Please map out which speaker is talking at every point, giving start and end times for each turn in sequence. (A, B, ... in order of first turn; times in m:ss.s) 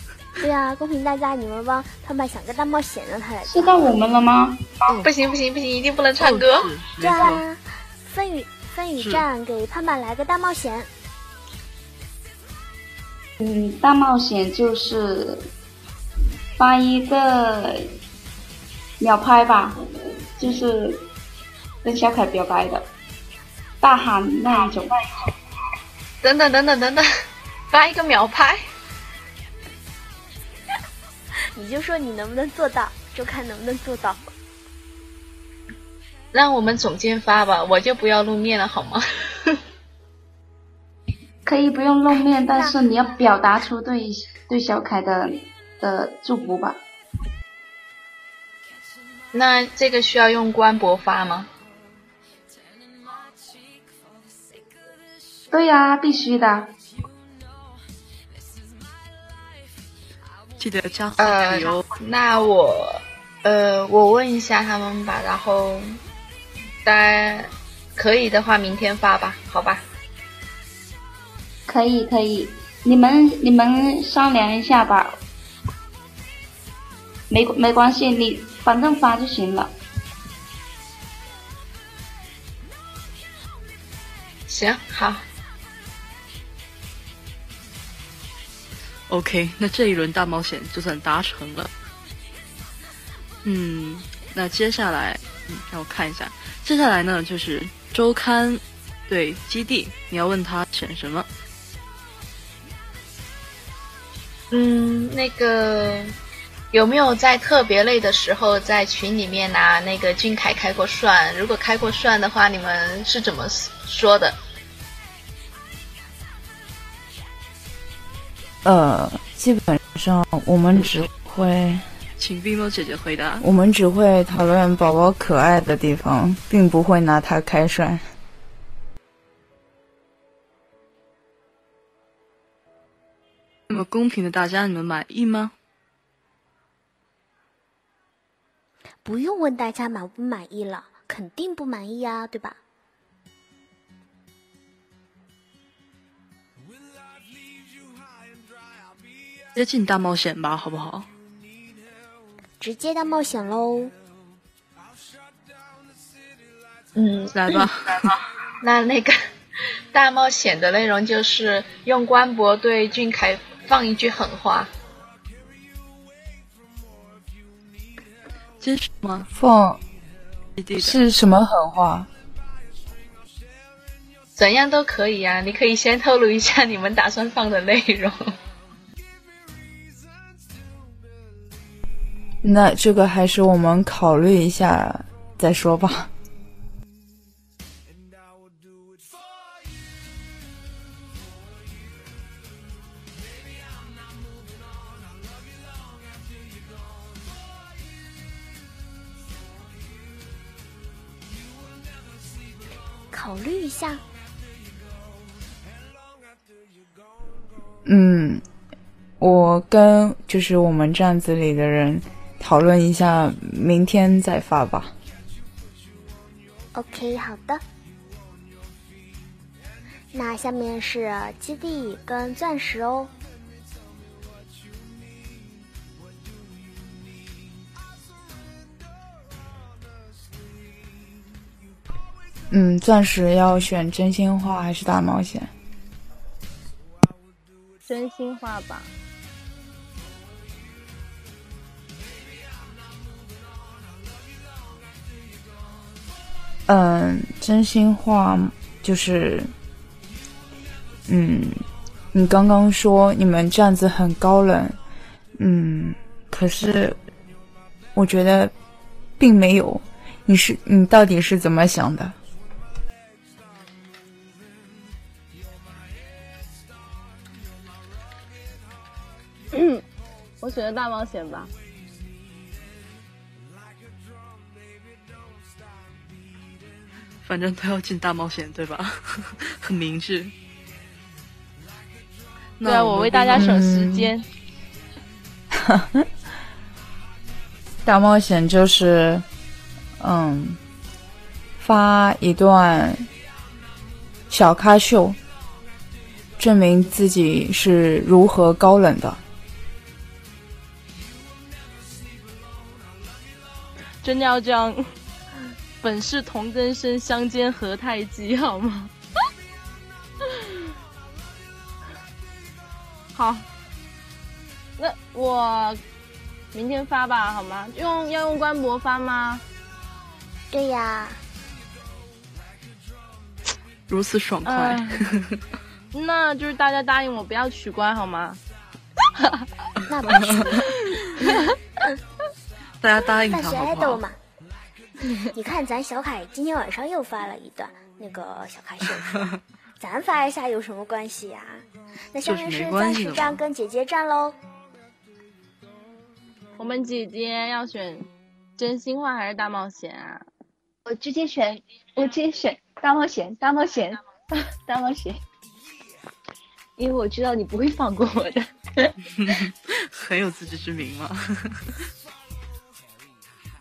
0:00.4-0:04.0 A
0:03.4-0:04.8 B
0:05.0-0:06.7 C
0:06.2-0:07.4 D
0:07.0-0:10.9 A
0:09.0-0:09.2 D
0:13.4-0:15.5 B
0:16.6-0:17.9 B
0:19.0-0:19.8 B
0:20.4-0:21.0 B
0:21.8-0:22.8 B
0:23.8-0:25.3 B
0:26.2-0:27.0 C
0:27.7-0:28.6 C
0:31.5-0:34.2 A
0:36.3-0:39.6 C
0:41.4-0:46.8 B
0:49.3-0:51.5 C
0:55.5-0:56.7 B
1:00.6-1:01.8 D
1:01.2-1:06.0 C
1:06.8-1:09.8 C
1:11.7-1:15.2 B
1:17.3-1:19.7 B
1:24.5-1:25.2 C
1:29.1-1:31.7 D
1:33.4-1:41.3 D
1:44.5-1:46.1 C
1:46.7-1:54.3 C
1:58.6-2:01.8 E
2:02.2-2:03.4 D
2:03.4-2:08.0 E
2:13.7-2:15.5 D
2:19.0-2:22.6 A
2:29.5-2:31.0 D
2:32.6-2:33.9 A
2:36.9-2:37.6 C
2:37.3-2:38.2 D
2:38.6-2:39.2 C
2:39.9-2:44.7 C
2:48.6-2:49.3 D
2:49.3-2:49.8 E
2:50.6-2:51.0 D
2:50.8-2:52.1 E
2:54.4-2:58.3 C
3:02.4-3:06.1 E
3:23.1-3:24.0 A
3:27.8-3:28.4 E
3:29.2-3:34.9 E
3:36.7-3:37.6 A
3:40.1-3:43.1 A
3:52.5-3:55.5 E
3:57.9-3:58.9 F
4:06.7-4:09.5 E
4:11.1-4:14.8 E
4:15.4-4:17.0 E
4:17.9-4:18.5 E
4:19.2-4:22.1 E
4:29.5-4:29.8 F
4:30.4-4:31.5 F
4:37.2-4:40.3 D
4:42.6-4:43.6 D
4:42.6-4:44.2 F
4:43.3-4:44.1 E
4:45.5-4:46.0 E
4:47.8-4:49.2 E
4:50.0-4:50.6 E
4:51.6-4:53.1 E
4:54.3-4:55.2 E
4:56.4-4:59.2 E
5:04.0-5:04.9 F
5:05.8-5:08.9 F
5:13.1-5:13.4 F
5:14.8-5:15.8 F
5:16.5-5:19.4 F
5:20.5-5:21.2 A
5:23.9-5:25.4 D
5:24.4-5:25.0 F
5:25.9-5:28.4 F
5:29.9-5:30.7 A
5:30.1-5:30.7 D
5:32.8-5:34.0 D
5:33.3-5:34.2 A
5:35.3-5:44.4 A
5:42.2-5:43.4 D
5:46.6-5:48.1 F
5:48.6-5:50.2 F
5:50.8-5:55.2 G
5:56.8-5:59.4 G
5:59.2-6:01.6 D